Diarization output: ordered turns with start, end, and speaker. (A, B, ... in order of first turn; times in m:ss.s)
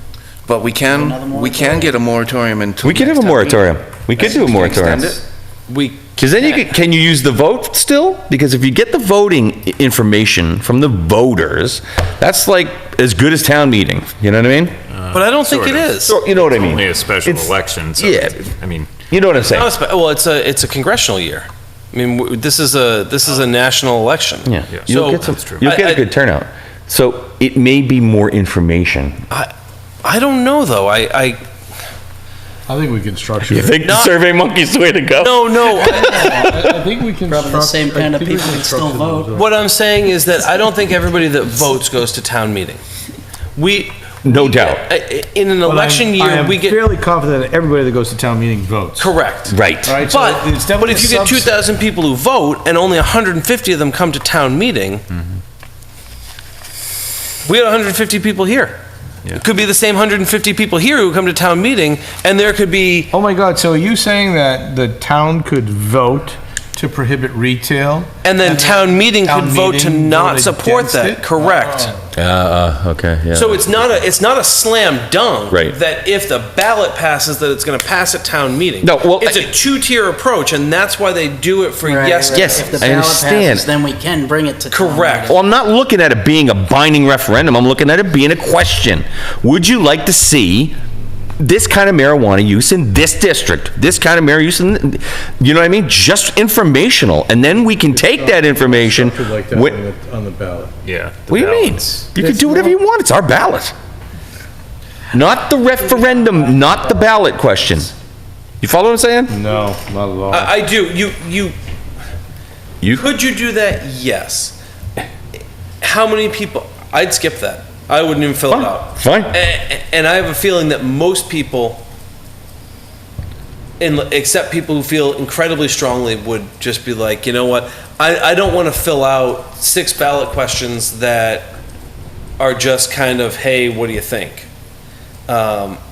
0:00.5-0:05.2 A
0:00.8-0:02.0 B
0:02.8-0:05.2 C
0:05.7-0:06.6 D
0:06.2-0:14.8 C
0:14.9-0:19.0 E
0:15.1-0:16.2 D
0:16.0-0:18.5 C
0:19.1-0:19.7 C
0:19.4-0:26.0 D
0:24.5-0:29.2 C
0:24.7-0:25.7 E
0:30.0-0:31.4 D
0:32.7-0:33.8 F
0:33.5-0:36.7 C
0:33.8-0:34.2 D
0:35.2-0:36.5 D
0:35.8-0:39.5 F
0:37.3-0:39.3 B
0:39.3-0:42.8 D
0:43.6-0:46.8 D
0:44.2-0:44.8 C
0:45.6-0:49.1 F
0:49.0-0:55.0 D
0:49.5-0:50.0 C
0:49.8-0:51.5 F
0:57.4-0:58.8 D
0:59.4-1:03.1 D
1:03.1-1:12.0 F
1:08.2-1:12.0 D
1:12.1-1:13.7 C
1:13.3-1:22.9 D
1:18.8-1:19.5 C
1:21.8-1:25.4 B
1:22.3-1:23.7 C
1:24.7-1:25.4 D
1:25.3-1:30.8 C
1:31.4-1:39.8 C
1:37.8-1:40.8 F
1:40.8-1:42.0 E
1:41.3-1:43.7 C
1:42.2-1:42.8 F
1:45.1-1:47.9 C
1:46.1-1:46.7 B
1:48.6-1:49.4 C
1:49.3-1:50.6 F
1:50.3-1:51.6 D
1:52.8-1:53.1 C
1:52.9-1:54.6 D
1:55.8-2:01.8 D
1:58.5-1:59.4 C
2:03.8-2:11.5 D
2:12.4-2:14.5 D
2:15.3-2:15.8 D